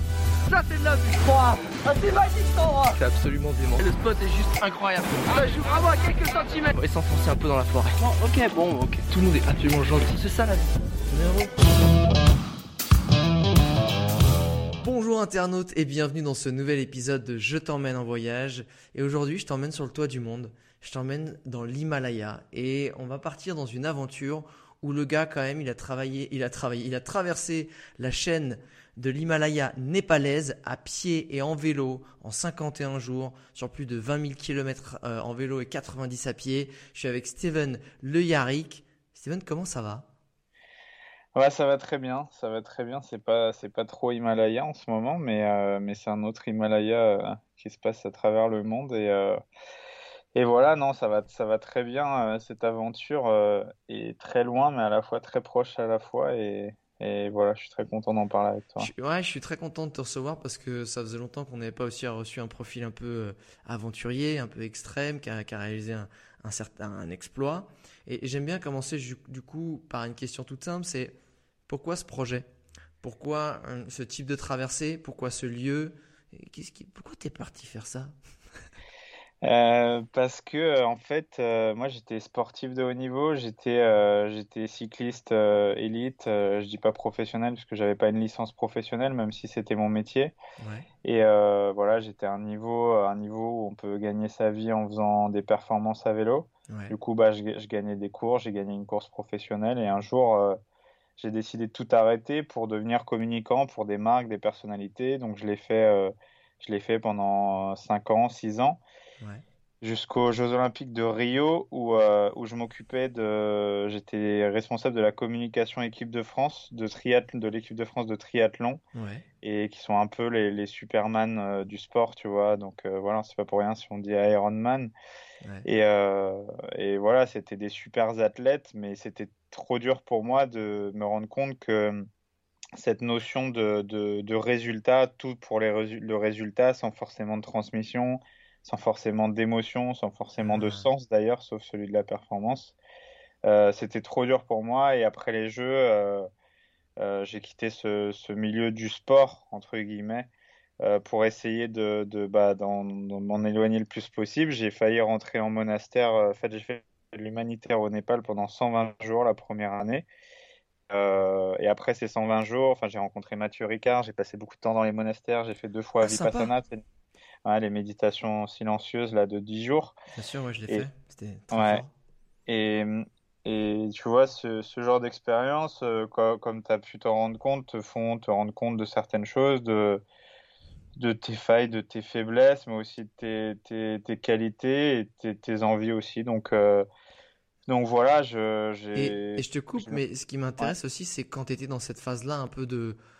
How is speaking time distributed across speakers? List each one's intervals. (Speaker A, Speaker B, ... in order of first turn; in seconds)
Speaker A: 0.5-10.8
Speaker B: 11.1-11.7, 14.8-40.1, 58.8-71.2, 71.7-72.5, 73.0-78.1, 90.6-90.9, 96.7-96.9, 118.9-119.2, 140.4-140.9, 166.0-166.5, 170.1-171.9, 188.9-193.0
Speaker C: 41.3-49.4, 50.3-58.9, 79.4-90.3, 91.0-100.6, 101.2-108.8, 109.8-118.8, 119.4-124.9, 125.6-132.0, 132.8-142.7, 143.4-146.3, 147.0-150.3, 150.8-160.1, 160.9-166.8, 167.4-169.9, 171.5-171.8, 172.5-180.0, 180.9-186.9, 187.7-190.0